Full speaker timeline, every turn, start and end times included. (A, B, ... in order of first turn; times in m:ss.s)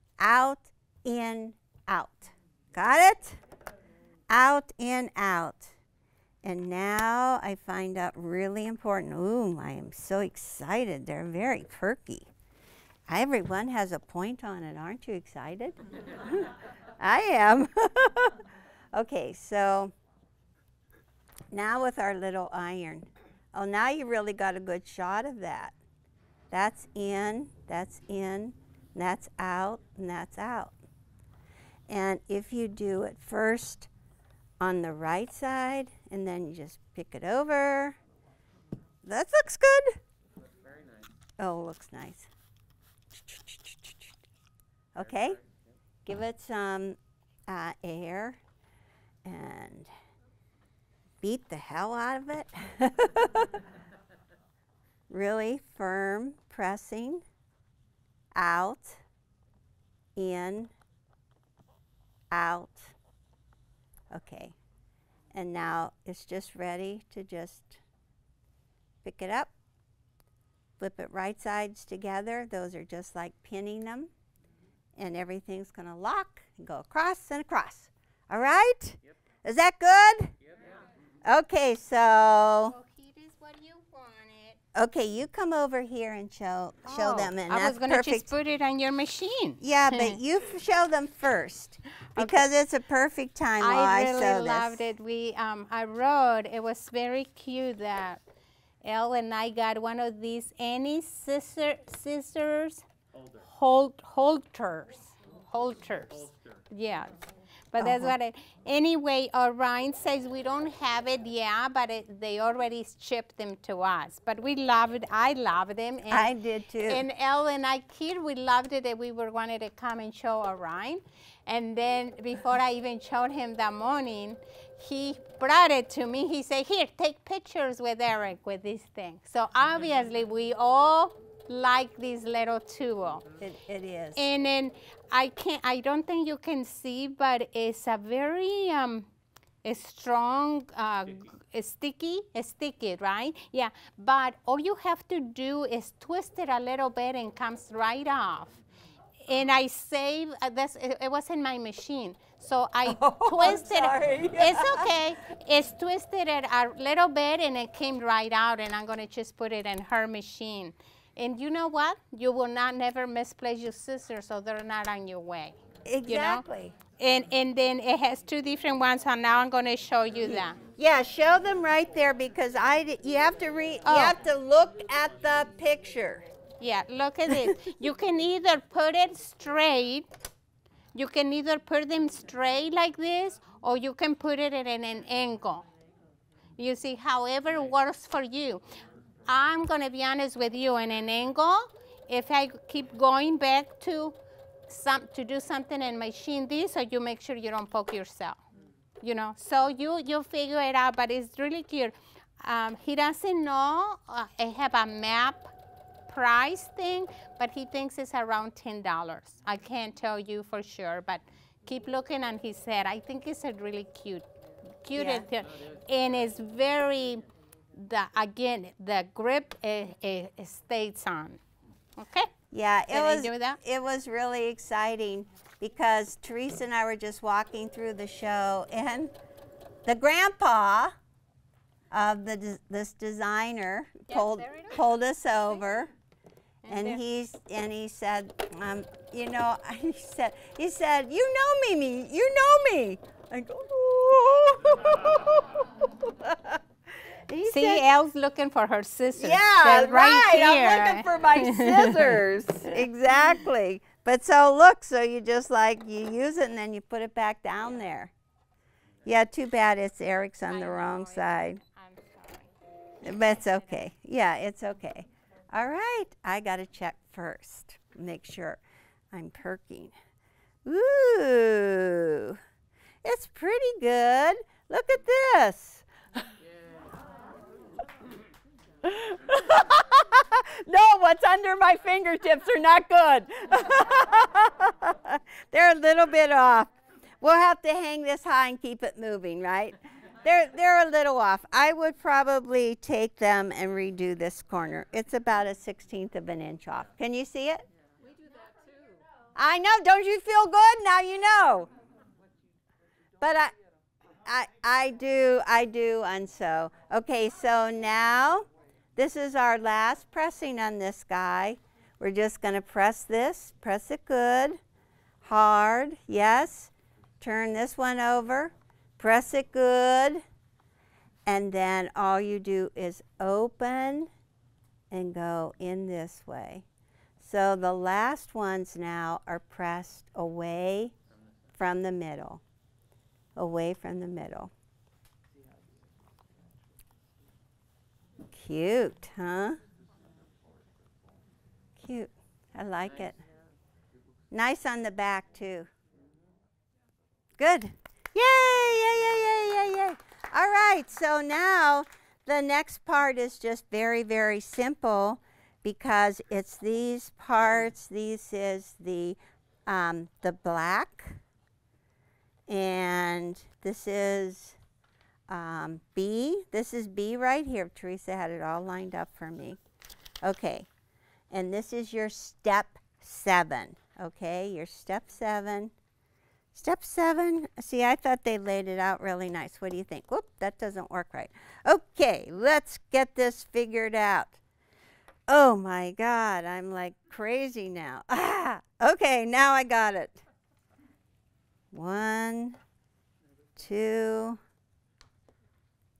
0:00.2-0:03.4 A
0:04.3-0:05.7 A
0:06.4-0:12.3 A
0:13.1-0:18.4 A
0:18.9-0:19.9 A
0:21.5-0:25.7 A
0:26.5-0:30.7 A
0:31.9-0:33.9 A
0:34.6-0:38.0 A
0:39.0-0:40.0 A
0:40.4-0:41.1 B
0:41.4-0:42.3 A
0:43.1-0:44.1 A
0:44.9-0:45.4 A
0:45.0-0:45.7 B
0:46.0-0:48.4 A
0:49.2-0:49.9 A
0:51.2-0:53.6 A
0:55.1-0:57.2 A
0:58.3-0:59.0 A
1:00.2-1:00.7 A
1:02.3-1:02.9 A
1:04.1-1:04.6 A
1:05.3-1:07.8 A
1:09.0-1:09.5 A
1:10.8-1:14.1 A
1:15.0-1:20.3 A
1:20.4-1:20.8 B
1:21.2-1:22.8 A
1:22.7-1:24.6 C
1:24.7-1:28.3 A
1:26.8-1:30.2 C
1:29.6-1:34.8 A
1:32.1-1:32.5 C
1:33.6-1:38.2 C
1:38.8-1:42.8 C
1:43.1-1:43.4 B
1:43.4-1:47.1 C
1:46.1-1:46.6 B
1:47.7-1:56.3 C
1:47.8-1:48.1 A
1:56.1-1:57.0 A
1:56.8-2:13.2 C
2:13.4-2:14.2 A
2:14.2-2:19.1 C
2:19.6-2:28.6 C
2:29.2-2:50.6 C
2:32.8-2:34.9 A
2:45.8-2:46.8 A
2:50.2-2:56.2 A
2:53.8-2:54.1 C
2:56.6-3:00.1 C
2:57.3-2:57.6 A
3:00.9-3:05.6 C
3:06.6-3:08.6 C
3:09.3-3:14.2 C
3:14.7-3:18.4 C
3:19.0-3:25.5 C
3:26.1-3:34.3 C
3:34.8-3:37.2 C
3:34.9-3:35.2 A
3:35.4-3:35.8 B
3:37.7-3:41.4 C
3:42.0-3:42.3 C
3:42.5-3:49.1 A
3:42.9-3:43.6 C
3:49.8-3:50.9 A
3:51.9-3:55.9 A
3:54.1-3:54.8 C
3:56.6-3:57.0 C
3:56.7-4:07.8 A
4:07.4-4:12.2 C
4:09.2-4:18.1 A
4:19.0-4:21.6 A
4:20.5-4:22.5 C
4:23.0-4:28.6 A
4:23.2-4:23.9 C
4:29.1-4:29.9 A
4:30.6-4:32.4 A
4:33.0-4:36.2 A
4:38.8-4:57.6 A
4:59.3-5:01.7 A
5:03.2-5:03.5 A
5:04.2-5:14.6 A
5:15.2-5:20.2 A
5:21.2-5:24.1 A
5:24.9-5:26.6 A
5:27.2-5:30.9 A
5:31.6-5:32.4 A
5:33.4-5:34.5 A
5:38.3-5:39.6 A
5:41.8-5:43.2 A
5:44.3-5:45.7 A
5:47.4-6:01.2 A
6:02.5-6:04.6 A
6:05.3-6:09.6 A
6:10.2-6:10.7 A
6:11.3-6:15.7 A
6:16.5-6:24.4 A
6:25.3-6:30.2 A
6:31.7-6:32.6 A
6:33.6-6:34.4 A